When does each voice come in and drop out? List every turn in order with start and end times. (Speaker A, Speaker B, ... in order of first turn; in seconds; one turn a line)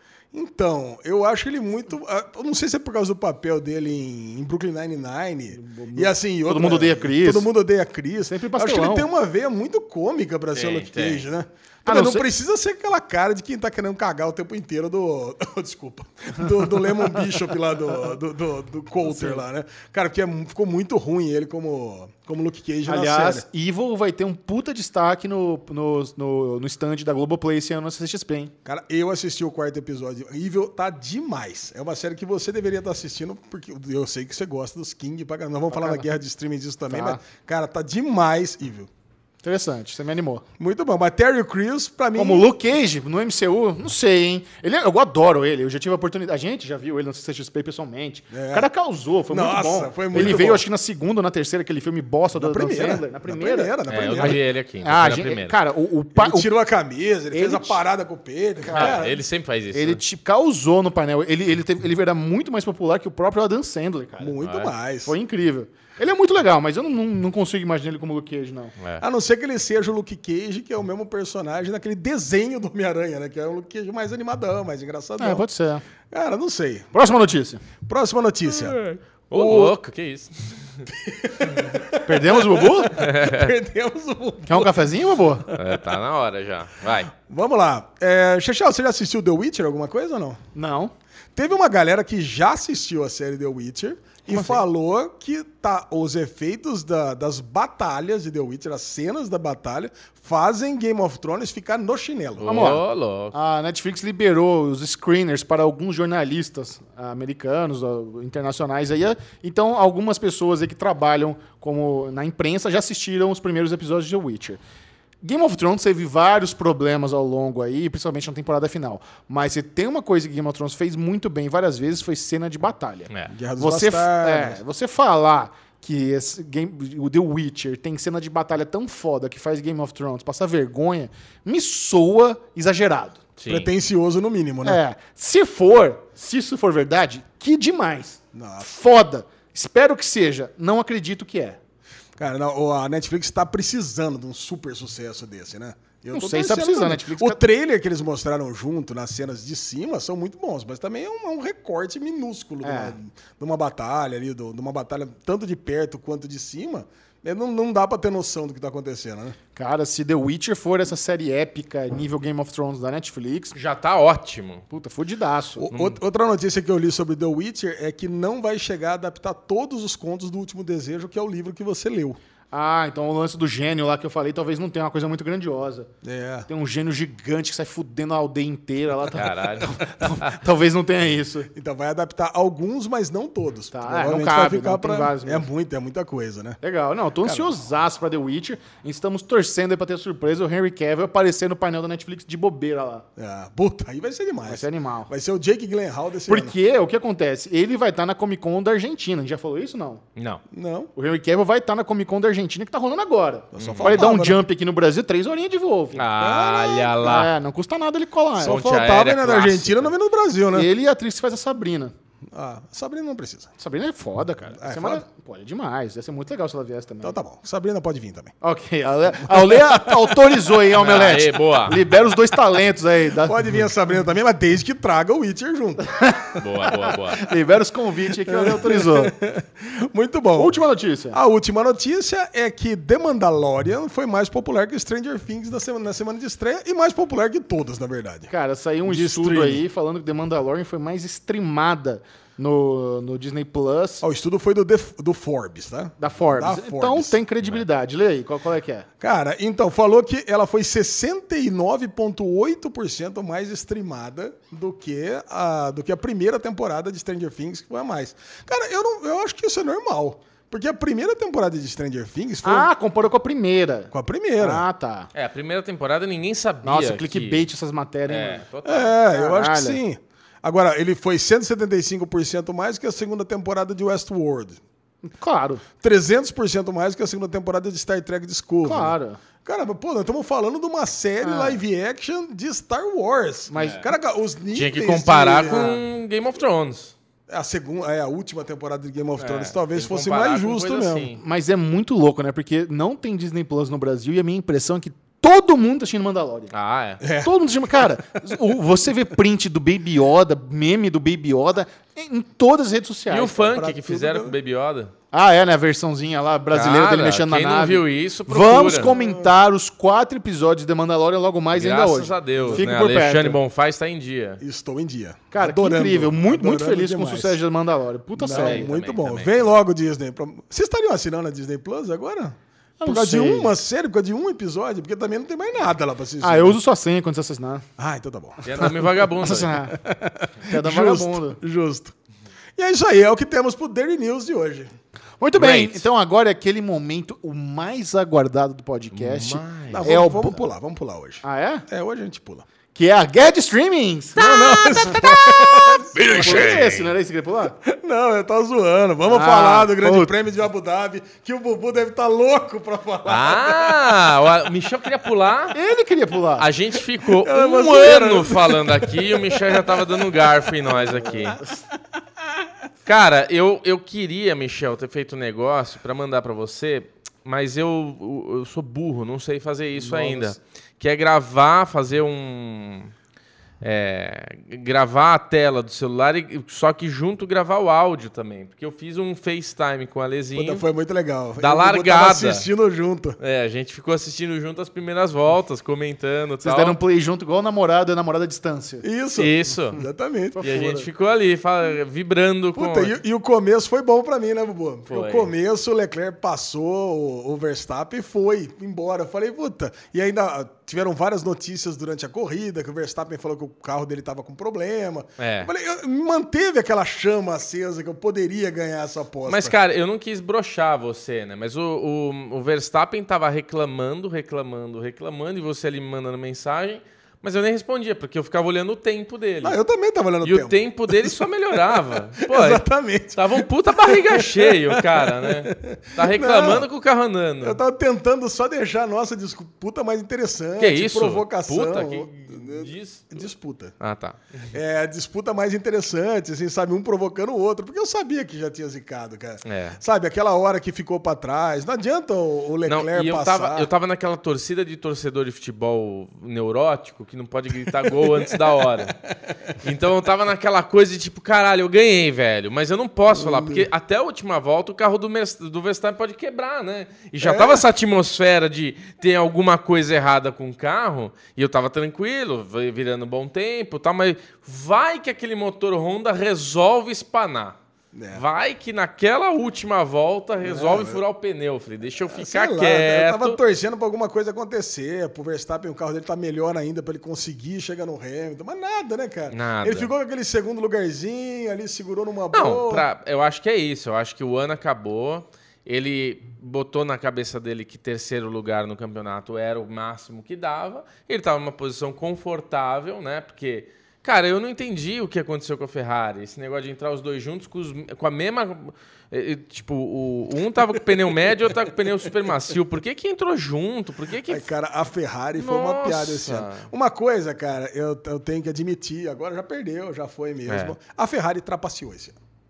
Speaker A: 0.3-23.4
Speaker B: 5.5-7.5
Speaker B: 8.3-9.1
Speaker C: 10.5-11.3
Speaker B: 11.9-12.3
Speaker B: 19.0-19.4
Speaker B: 22.9-28.5
Speaker A: 28.6-38.9
Speaker B: 35.7-36.1
Speaker B: 36.9-37.2
Speaker B: 39.4-40.4
Speaker A: 40.6-42.5
Speaker B: 42.1-56.5
Speaker A: 48.3-48.7
Speaker A: 49.3-50.6
Speaker A: 52.4-54.4
Speaker C: 53.9-55.6
Speaker A: 56.1-59.2
Speaker B: 57.3-57.8
Speaker B: 58.6-59.0
Speaker C: 58.7-60.0
Speaker B: 59.7-64.3
Speaker A: 64.2-65.1
Speaker C: 64.4-64.7
Speaker B: 65.1-68.7
Speaker C: 68.8-69.0
Speaker A: 69.0-75.4
Speaker B: 75.2-75.8
Speaker A: 76.1-76.9
Speaker B: 76.9-77.6
Speaker A: 77.8-78.8
Speaker C: 78.5-80.9
Speaker A: 79.3-79.8
Speaker A: 80.9-85.8
Speaker B: 82.0-83.0
Speaker C: 83.0-83.5
Speaker B: 84.5-85.5
Speaker C: 85.6-87.1
Speaker A: 87.2-90.4
Speaker B: 90.5-90.9
Speaker A: 91.3-102.8
Speaker C: 94.3-94.6
Speaker C: 102.4-103.3
Speaker B: 102.5-114.6
Speaker B: 115.2-133.2
Speaker A: 123.3-124.6
Speaker C: 133.4-133.7
Speaker A: 133.5-134.8
Speaker B: 134.6-141.6
Speaker A: 138.3-138.7
Speaker A: 142.2-159.4
Speaker B: 146.1-147.4
Speaker B: 152.6-153.0
Speaker B: 159.6-163.6
Speaker C: 163.5-164.7
Speaker B: 164.7-165.7
Speaker A: 165.6-172.2
Speaker C: 165.7-166.0
Speaker B: 172.5-175.9
Speaker A: 176.0-176.5
Speaker B: 176.5-181.5
Speaker C: 179.1-180.3
Speaker A: 181.5-186.6
Speaker B: 183.7-185.5
Speaker B: 186.6-193.1
Speaker A: 187.2-187.6
Speaker A: 193.2-196.6
Speaker B: 194.5-195.1
Speaker B: 196.3-200.0
Speaker C: 200.2-200.4
Speaker A: 200.5-200.9
Speaker B: 201.0-206.1
Speaker A: 203.5-204.4
Speaker C: 203.6-204.1
Speaker C: 205.9-207.3
Speaker A: 206.2-207.0
Speaker B: 207.0-208.6
Speaker A: 208.4-210.7
Speaker C: 208.4-209.9
Speaker B: 210.5-211.9
Speaker A: 212.3-213.5
Speaker B: 213.6-217.2
Speaker A: 214.6-215.0
Speaker A: 217.0-218.3
Speaker B: 218.4-223.6
Speaker A: 219.2-220.5
Speaker C: 220.8-221.8
Speaker A: 223.2-225.8
Speaker B: 225.9-229.2
Speaker C: 226.4-227.2
Speaker A: 228.3-230.5
Speaker B: 230.4-231.2
Speaker A: 231.1-238.3
Speaker B: 238.3-244.0
Speaker A: 238.8-239.6
Speaker A: 244.0-247.2
Speaker B: 246.0-248.9
Speaker A: 249.0-262.7
Speaker B: 262.4-265.1
Speaker A: 263.9-264.6
Speaker C: 265.1-267.4
Speaker B: 266.6-268.4
Speaker C: 268.1-269.0
Speaker A: 268.6-274.6
Speaker B: 269.1-269.8
Speaker B: 275.1-275.6
Speaker A: 275.8-285.8
Speaker B: 278.6-279.2
Speaker B: 281.2-281.6
Speaker B: 283.5-283.9
Speaker C: 283.6-283.9
Speaker C: 284.5-286.9
Speaker B: 285.4-285.8
Speaker A: 287.3-291.1
Speaker C: 289.2-291.2
Speaker B: 291.2-296.5
Speaker C: 296.5-297.0
Speaker A: 297.0-297.9
Speaker B: 297.2-303.6
Speaker C: 303.1-304.9
Speaker A: 303.5-304.4
Speaker B: 305.1-313.4
Speaker C: 306.5-308.9
Speaker A: 308.7-309.3
Speaker C: 311.5-314.4
Speaker A: 312.4-312.7
Speaker A: 314.4-317.4
Speaker B: 315.3-318.7
Speaker A: 318.2-326.6
Speaker C: 318.3-319.5
Speaker B: 322.8-323.5
Speaker B: 326.2-327.6
Speaker A: 327.8-328.9
Speaker C: 328.4-329.6
Speaker B: 328.6-329.8
Speaker A: 329.7-331.9
Speaker B: 330.4-331.4
Speaker A: 332.6-334.7
Speaker B: 335.2-340.4
Speaker C: 335.4-335.9
Speaker C: 338.9-339.9
Speaker A: 339.7-342.4
Speaker B: 341.2-341.6
Speaker B: 342.8-347.6
Speaker A: 344.2-346.6
Speaker C: 344.3-346.9
Speaker A: 347.6-354.0
Speaker B: 349.1-350.1
Speaker C: 353.1-355.6
Speaker B: 355.5-356.5
Speaker C: 356.4-361.4
Speaker A: 357.1-361.4
Speaker B: 361.0-361.6
Speaker C: 362.9-372.9
Speaker B: 369.8-370.4
Speaker C: 373.6-380.6
Speaker A: 380.4-383.2
Speaker C: 381.4-382.5
Speaker C: 383.2-386.8
Speaker B: 386.4-388.9
Speaker A: 388.8-390.4
Speaker C: 389.2-389.8
Speaker B: 390.4-390.9
Speaker C: 390.4-392.9
Speaker A: 392.6-409.6
Speaker C: 394.9-395.3
Speaker C: 405.2-405.5
Speaker C: 409.3-419.6
Speaker A: 419.4-426.7
Speaker C: 420.2-427.6
Speaker A: 427.4-433.7
Speaker C: 430.6-433.2
Speaker C: 433.8-434.5
Speaker A: 434.5-443.7
Speaker C: 439.4-439.8
Speaker C: 442.7-449.0
Speaker A: 447.9-448.4
Speaker C: 449.6-467.6
Speaker A: 453.1-453.7
Speaker A: 457.2-457.6
Speaker A: 467.9-468.2
Speaker C: 468.1-473.4
Speaker A: 470.4-471.0
Speaker A: 472.1-482.9
Speaker C: 479.3-479.9
Speaker C: 482.3-504.5
Speaker A: 504.3-512.2
Speaker C: 505.4-506.7
Speaker C: 510.5-510.8